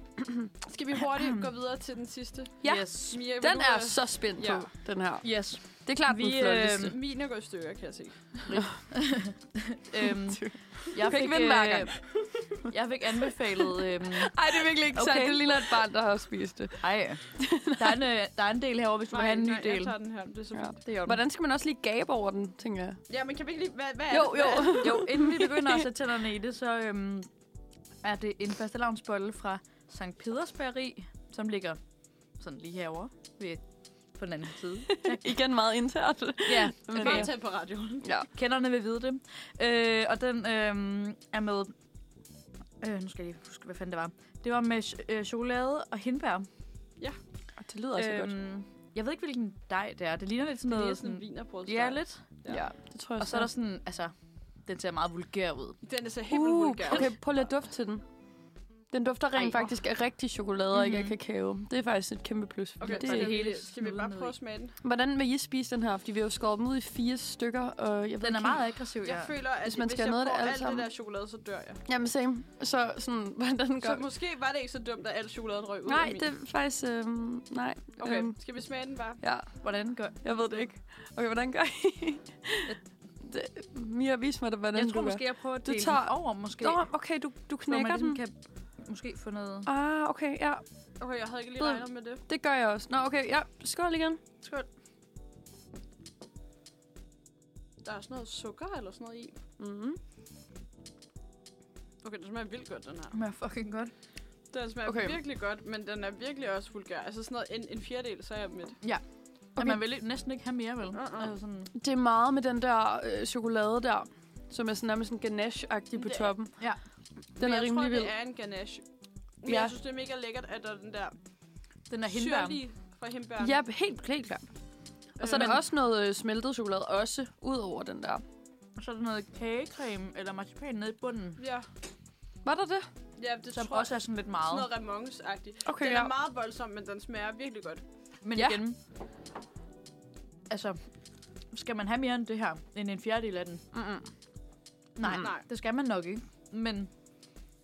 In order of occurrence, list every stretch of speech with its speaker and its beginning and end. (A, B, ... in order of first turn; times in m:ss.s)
0:00.2-0:00.5 A
0:00.6-0:04.7 B
0:01.2-0:01.4 C
0:02.6-0:06.9 A
0:02.6-0:03.2 C
0:05.2-0:06.9 C
0:06.9-0:08.6 B
0:08.4-0:15.8 C
0:10.0-0:12.0 A
0:14.0-0:18.0 A
0:16.8-0:19.9 C
0:19.1-0:20.8 B
0:20.5-0:23.0 A
0:20.8-0:21.2 C
0:23.1-0:25.0 B
0:24.1-0:25.9 A
0:24.8-0:27.3 C
0:28.0-0:31.8 C
0:32.3-0:35.2 C
0:35.0-0:37.3 A
0:36.4-0:37.3 C
0:36.9-0:38.1 B
0:38.3-0:41.7 C
0:42.8-0:46.5 C
0:47.6-0:48.3 A
0:48.0-0:54.1 C
0:50.7-0:52.6 B
0:52.5-0:53.5 A
0:54.6-0:55.8 C
0:55.8-0:57.2 B
0:56.3-0:58.0 A
0:58.9-1:03.4 A
0:59.4-0:59.7 B
1:00.7-1:01.2 C
1:02.8-1:04.8 B
1:02.8-1:04.3 C
1:04.8-1:08.7 A
1:08.2-1:09.4 C
1:09.0-1:11.8 B
1:09.6-1:10.9 A
1:11.8-1:14.0 A
1:13.8-1:16.2 B
1:15.8-1:18.4 A
1:18.0-1:19.2 B
1:19.2-1:19.7 A
1:19.6-1:20.2 C
1:20.2-1:28.2 A
1:24.7-1:26.9 C
1:27.7-1:29.7 C
1:29.6-1:30.6 A
1:31.0-1:32.2 B
1:31.6-1:34.2 A
1:37.8-1:39.4 B
1:39.6-1:40.0 A
1:42.0-1:43.2 B
1:43.1-1:43.9 C
1:44.5-1:48.8 B
1:44.8-1:45.2 A
1:48.8-1:51.7 C
1:50.9-1:51.3 B
1:51.7-1:56.6 A
1:55.9-1:56.3 B
1:57.4-1:58.1 A
1:57.4-1:58.8 B
1:59.4-2:01.2 B
1:59.4-1:59.7 A
2:01.9-2:02.6 C
2:02.1-2:03.6 B
2:03.4-2:04.5 A
2:05.2-2:05.6 B
2:05.2-2:08.2 A
2:05.3-2:05.6 C
2:08.8-2:11.4 C
2:11.4-2:11.7 B
2:12.4-2:12.9 A
2:13.2-2:17.8 B
2:13.5-2:14.7 C
2:15.6-2:16.1 A
2:18.2-2:18.8 C
2:18.3-2:18.6 A
2:20.5-2:20.8 C
2:21.5-2:23.6 C
2:23.7-2:24.1 A
2:25.0-2:26.9 C
2:25.1-2:25.4 B